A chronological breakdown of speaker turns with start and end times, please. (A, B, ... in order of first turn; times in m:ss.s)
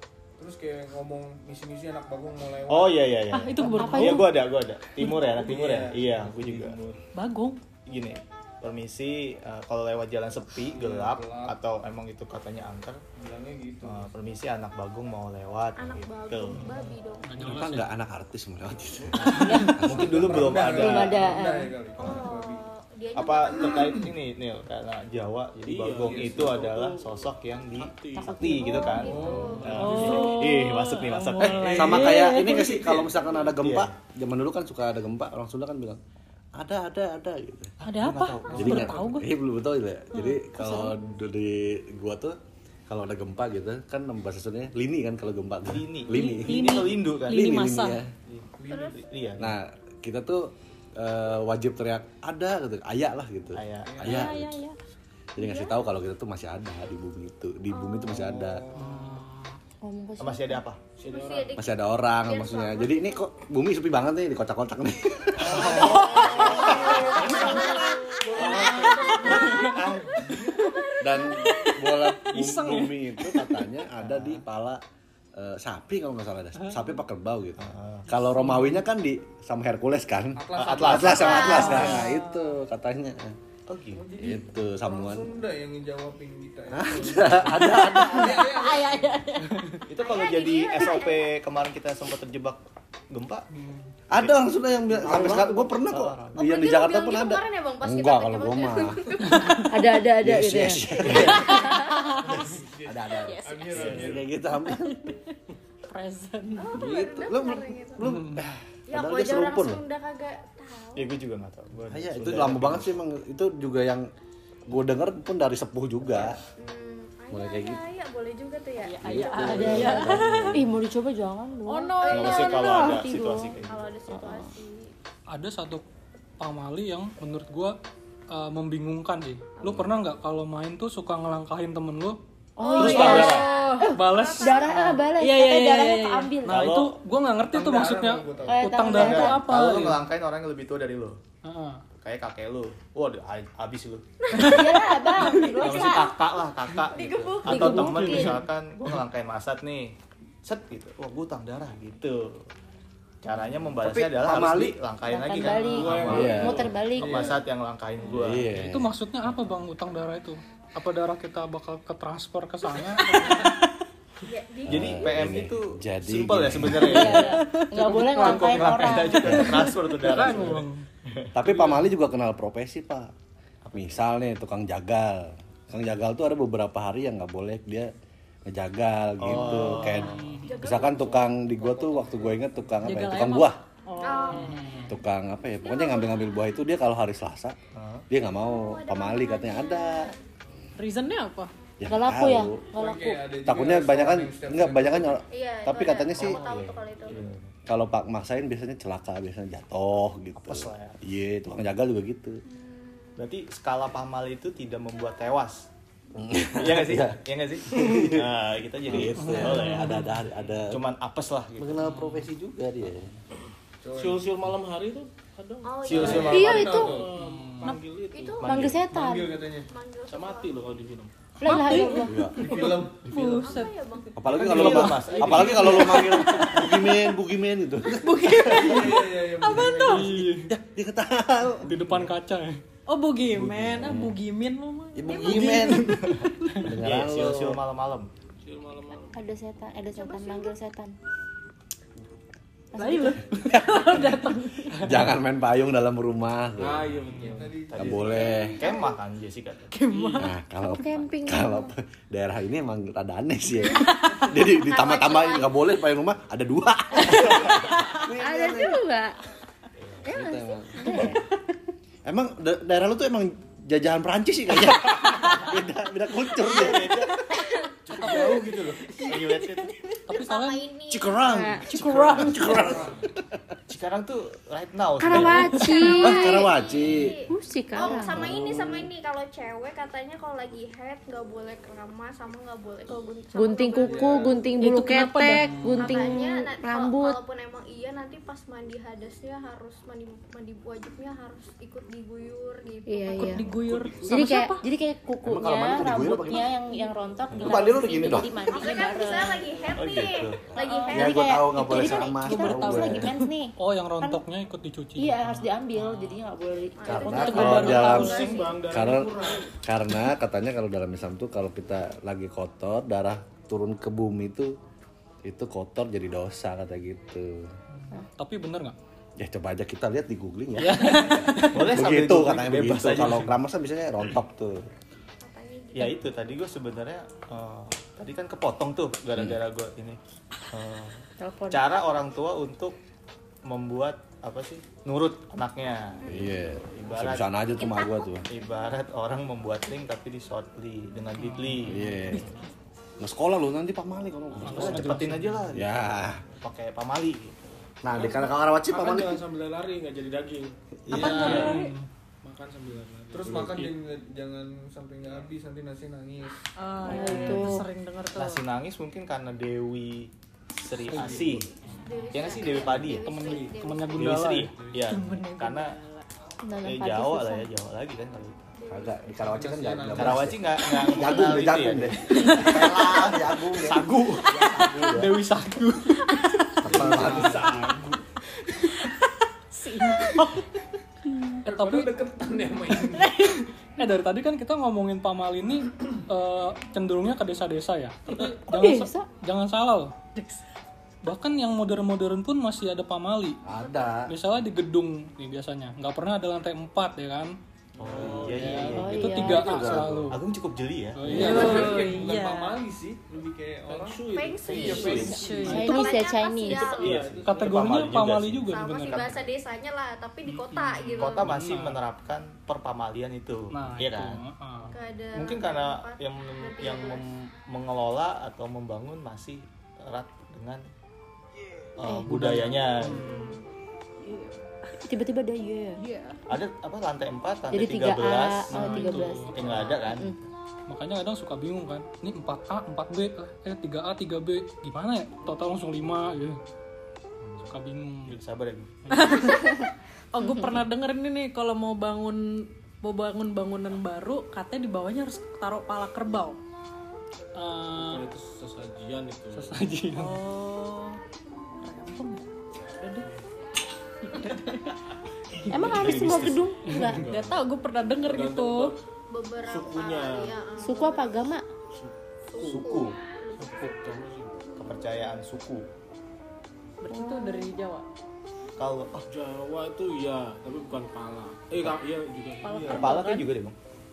0:00.4-0:03.0 A
0:02.7-0:06.8 B
0:03.3-0:04.3 C
0:03.6-0:04.3 D
0:05.0-0:06.7 A
0:06.3-0:07.0 E
0:07.1-0:07.6 C
0:07.9-0:13.0 B
0:10.7-0:11.5 A
0:13.2-0:14.1 A
0:13.8-0:16.9 B
0:15.8-0:17.3 F
0:17.2-0:17.9 G
0:17.4-0:20.7 H
0:19.2-0:19.8 G
0:19.2-0:21.3 B
0:19.4-0:19.8 D
0:20.1-0:22.6 A
0:20.6-0:21.7 D
0:22.0-0:24.0 F
0:23.2-0:32.2 B
0:23.7-0:24.0 A
0:25.6-0:30.3 E
0:26.0-0:26.6 A
0:28.2-0:29.0 D
0:28.7-0:29.9 F
0:29.0-0:30.4 A
0:29.8-0:32.8 C
0:31.6-0:32.8 E
0:31.7-0:36.0 H
0:32.7-0:33.9 B
0:36.5-0:37.7 H
0:37.8-0:38.9 B
0:37.8-0:39.3 C
0:38.5-0:42.4 H
0:40.2-0:40.9 C
0:42.9-0:48.1 H
0:45.7-0:47.4 B
0:46.1-0:48.0 C
0:48.3-0:49.5 B
0:48.7-0:49.0 F
0:48.7-0:49.0 A
0:49.4-0:54.6 H
0:53.5-0:54.0 B
0:53.8-0:54.4 A
0:54.1-0:54.7 D
0:54.2-0:54.5 C
0:55.4-0:58.6 H
0:55.4-0:55.8 F
0:57.7-0:58.3 F
0:58.2-0:59.1 A
0:58.8-0:59.6 G
0:59.8-1:00.6 D
1:00.2-1:00.8 B
1:01.0-1:01.6 E
1:01.0-1:03.2 F
1:01.6-1:06.0 H
1:05.4-1:07.7 B
1:05.4-1:09.9 A
1:05.7-1:11.7 F
1:05.8-1:06.7 C
1:06.5-1:07.3 H
1:07.2-1:08.0 C
1:08.3-1:10.7 B
1:09.3-1:09.6 C
1:11.0-1:14.8 H
1:11.2-1:13.6 C
1:14.0-1:14.4 B
1:15.4-1:23.4 H
1:17.6-1:18.1 B
1:20.4-1:22.0 A
1:20.6-1:22.1 B
1:21.2-1:21.7 F
1:21.6-1:22.5 C
1:23.7-1:24.0 B
1:23.9-1:29.2 A
1:24.2-1:25.3 H
1:26.7-1:28.5 H
1:28.0-1:29.5 D
1:29.9-1:32.6 B
1:30.0-1:31.4 F
1:33.1-1:33.4 B
1:33.5-1:33.9 A
1:34.1-1:39.0 H
1:34.1-1:36.4 B
1:36.4-1:40.0 F
1:39.3-1:39.6 G
1:39.7-1:41.0 D
1:40.2-1:41.6 H
1:41.0-1:41.5 B
1:41.0-1:42.5 F
1:42.2-1:44.3 A
1:42.8-1:45.1 H
1:43.1-1:43.7 F
1:43.7-1:44.2 B
1:44.6-1:45.2 C
1:45.9-1:46.8 C
1:46.6-1:48.0 F
1:46.7-1:49.8 H
1:48.0-1:48.5 G
1:48.9-1:51.1 F
1:51.0-1:52.9 B
1:51.9-1:54.0 H
1:54.7-1:56.4 H
1:56.6-2:00.2 F
1:57.3-1:57.8 H
1:58.8-2:00.6 C
1:59.0-2:00.7 H
1:59.4-2:03.5 D
2:01.7-2:02.7 C
2:02.0-2:04.9 F
2:02.1-2:03.9 B
2:04.1-2:04.5 D
2:05.3-2:05.8 G
2:06.4-2:07.7 G
2:08.3-2:12.2 G
2:12.6-2:16.7 D
2:12.6-2:14.9 F
2:12.8-2:13.9 C
2:12.8-2:13.4 B
2:13.9-2:14.7 G
2:14.7-2:16.3 C
2:16.4-2:19.9 G
2:16.5-2:17.0 B
2:17.5-2:18.7 A
2:18.4-2:19.4 D
2:18.6-2:20.0 C
2:18.8-2:21.2 B
2:21.4-2:21.8 G
2:22.0-2:24.0 B
2:24.3-2:26.1 F
2:24.4-2:26.2 D
2:25.6-2:32.4 B
2:26.9-2:28.0 F
2:27.4-2:28.4 D
2:33.2-2:38.6 B
2:33.8-2:34.8 H
2:35.0-2:37.3 D
2:35.6-2:37.2 E
2:36.1-2:36.6 H
2:36.9-2:37.4 A
2:38.0-2:38.9 H
2:38.5-2:43.6 G
2:44.2-2:45.3 F
2:44.6-2:47.2 H
2:44.7-2:51.8 B
2:46.8-2:49.4 D
2:46.9-2:48.6 C
2:49.2-2:49.5 H
2:49.8-2:50.8 G
2:51.3-2:53.1 H
2:53.6-2:54.0 B
2:53.7-2:57.9 H
2:58.5-3:03.6 H
2:59.2-3:00.2 B
2:59.3-3:00.5 G
3:00.4-3:01.1 F
3:00.7-3:02.7 A
3:02.8-3:04.5 C
3:04.0-3:04.6 F
3:04.3-3:04.9 G
3:04.9-3:07.6 H
3:05.6-3:06.4 F
3:07.7-3:08.0 B
3:08.1-3:10.1 H
3:08.4-3:10.2 F
3:10.8-3:11.5 C
3:11.8-3:12.7 H
3:11.8-3:13.2 D
3:12.7-3:15.2 A
3:13.4-3:16.4 H
3:15.3-3:17.3 F
3:16.2-3:17.5 B
3:17.7-3:22.4 H
3:20.4-3:21.0 B
3:22.5-3:23.2 F
3:23.2-3:25.7 B
3:26.2-3:28.2 H
3:26.4-3:30.0 B
3:28.9-3:30.8 H
3:29.1-3:30.1 G
3:30.7-3:31.8 B
3:31.6-3:33.1 H
3:31.8-3:32.3 G
3:33.8-3:34.2 A
3:33.9-3:38.6 E
3:35.6-3:36.8 F
3:35.8-3:36.6 B
3:35.9-3:37.1 A
3:36.3-3:37.0 D
3:37.2-3:37.8 G
3:38.1-3:38.7 F
3:38.4-3:39.4 D
3:38.4-3:38.8 H
3:38.7-3:39.7 A
3:39.7-3:40.8 F
3:40.1-3:41.1 E
3:41.4-3:42.2 D
3:41.4-3:43.7 C
3:42.0-3:42.4 H
3:42.4-3:43.2 A
3:43.1-3:44.3 F
3:44.2-3:48.7 H
3:44.2-3:46.4 B
3:44.6-3:46.0 E
3:44.6-3:44.9 C
3:46.2-3:46.4 C
3:48.0-3:50.2 C
3:48.5-3:50.4 A
3:49.7-3:50.5 G
3:50.5-3:51.6 H
3:51.6-3:52.6 G
3:51.7-3:52.0 B
3:52.9-3:56.2 C
3:53.3-3:54.2 H
3:54.9-3:57.6 H
3:55.2-3:56.3 B
3:56.8-3:58.1 B
3:58.4-3:59.2 E
3:59.1-4:00.9 D
3:59.9-4:00.5 F
4:02.7-4:03.2 D
4:02.7-4:05.0 C
4:03.4-4:04.1 H
4:04.8-4:07.0 H
4:06.6-4:08.5 E
4:07.1-4:08.4 A
4:07.7-4:08.6 H
4:08.6-4:09.7 B
4:09.7-4:10.3 C
4:10.2-4:18.8 H
4:10.6-4:11.7 D
4:14.3-4:15.5 F
4:17.0-4:19.1 D
4:19.8-4:20.0 B
4:20.0-4:21.2 D
4:20.1-4:21.2 H
4:22.0-4:27.1 H
4:26.3-4:27.2 B
4:27.8-4:29.8 B
4:29.0-4:29.3 D
4:30.1-4:30.7 G
4:30.1-4:31.4 F
4:30.9-4:32.9 H
4:31.2-4:32.8 D
4:31.6-4:32.9 B
4:32.7-4:33.0 E
4:33.7-4:35.7 B
4:35.0-4:36.5 D
4:35.1-4:36.0 C
4:35.6-4:44.3 F
4:36.0-4:37.1 H
4:37.3-4:38.3 D
4:37.8-4:38.9 E
4:43.4-4:47.2 D
4:43.8-4:44.4 A
4:44.6-4:46.1 C
4:45.4-4:45.9 G
4:45.8-4:53.4 F
4:52.9-4:53.4 D
4:53.2-4:54.6 C
4:53.4-4:53.9 E
4:54.0-4:59.6 D
4:55.2-4:56.5 H
4:57.3-4:58.3 H
4:57.7-4:59.1 C
4:58.4-5:01.8 F
4:59.7-5:00.4 B
5:00.6-5:04.2 D
5:00.9-5:03.1 H
5:02.0-5:03.2 C
5:03.6-5:06.2 G
5:05.0-5:08.4 D
5:06.8-5:08.5 F
5:06.8-5:14.5 H
5:07.0-5:08.3 C
5:07.4-5:07.8 B
5:07.4-5:09.5 E
5:15.2-5:17.5 H
5:18.0-5:18.8 G
5:19.2-5:24.6 H
5:20.7-5:21.6 G
5:21.5-5:23.4 B
5:25.2-5:26.2 F
5:25.7-5:30.0 B
5:30.5-5:32.7 B
5:31.2-5:31.6 D
5:33.5-5:37.3 B
5:36.0-5:38.2 H
5:37.5-5:38.2 F
5:38.3-5:41.8 B
5:41.2-5:42.2 G
5:41.7-5:42.3 H
5:43.0-5:46.2 H
5:44.4-5:45.5 G
5:44.4-5:47.5 B
5:47.8-5:49.2 H
5:47.9-5:51.6 E
5:50.8-5:51.4 H
5:50.9-5:51.8 G
5:51.0-5:51.5 B
5:51.1-5:51.7 C
5:52.2-5:53.4 E
5:53.1-5:56.4 A
5:56.6-5:58.4 C
5:56.8-5:57.6 D
5:57.1-5:57.5 E
5:58.1-6:01.5 B
6:00.9-6:01.4 E
6:00.9-6:01.3 G
6:01.8-6:04.2 F
6:02.1-6:05.8 B
6:02.9-6:04.5 G
6:04.9-6:06.0 C
6:06.4-6:07.5 D
6:06.6-6:08.5 B
6:08.6-6:09.0 F
6:08.7-6:13.8 H
6:09.2-6:10.3 A
6:09.9-6:14.9 B
6:14.3-6:15.2 E
6:14.8-6:15.0 H
6:14.9-6:17.5 G
6:16.6-6:17.5 H
6:16.7-6:18.0 E
6:16.8-6:17.9 A
6:16.8-6:17.2 B
6:19.5-6:20.5 C
6:21.4-6:23.1 A
6:21.5-6:21.9 G
6:23.0-6:23.4 C
6:23.8-6:29.9 G
6:28.1-6:28.4 E
6:28.4-6:29.1 D
6:31.0-6:33.4 G
6:33.4-6:34.1 H
6:34.1-6:37.3 G
6:37.8-6:41.6 B
6:37.8-6:38.8 E
6:37.9-6:40.1 H
6:38.4-6:40.2 G
6:38.7-6:39.7 D
6:40.9-6:41.9 G
6:41.0-6:41.4 H
6:41.1-6:44.0 A
6:41.1-6:42.5 C
6:43.7-6:45.2 E
6:44.1-6:47.0 F
6:44.4-6:45.2 B
6:44.8-6:45.7 C
6:45.2-6:45.9 G
6:45.5-6:46.8 D
6:46.5-6:48.5 B
6:46.9-6:47.8 E
6:47.2-6:49.2 G
6:48.4-6:51.3 F
6:50.2-6:51.8 G
6:51.0-6:54.2 B
6:53.5-6:54.7 G
6:54.7-6:57.0 F
6:55.1-7:00.6 B
7:01.8-7:03.2 B
7:01.8-7:02.1 D
7:01.9-7:03.4 G
7:02.9-7:03.3 C
7:04.0-7:04.3 C
7:04.8-7:05.8 D
7:05.8-7:06.2 C
7:06.3-7:10.1 B
7:07.5-7:10.2 D
7:08.5-7:09.8 G
7:10.7-7:16.4 G
7:17.2-7:17.5 B
7:17.5-7:18.2 G
7:18.1-7:19.1 B
7:18.9-7:22.2 C
7:19.2-7:19.6 D
7:20.2-7:20.6 D
7:22.8-7:26.4 C
7:27.4-7:28.0 G
7:27.7-7:29.6 E
7:29.3-7:30.2 G
7:29.9-7:31.0 C
7:31.6-7:32.2 C
7:32.8-7:33.1 C
7:34.1-7:34.6 C
7:35.5-7:37.0 D
7:35.5-7:37.5 E
7:35.6-7:36.4 B
7:37.0-7:38.7 C
7:38.0-7:38.8 E
7:39.1-7:41.2 F
7:39.5-7:40.4 E
7:40.6-7:41.4 D
7:41.7-7:42.8 E
7:42.3-7:45.0 F
7:42.4-7:42.9 B
7:42.4-7:42.8 H
7:43.4-7:44.4 E
7:44.6-7:45.6 B
7:46.8-7:47.8 C
7:46.9-7:47.5 D
7:48.6-7:49.1 B
7:49.1-7:53.0 E
7:52.4-7:53.3 C
7:52.7-7:53.6 B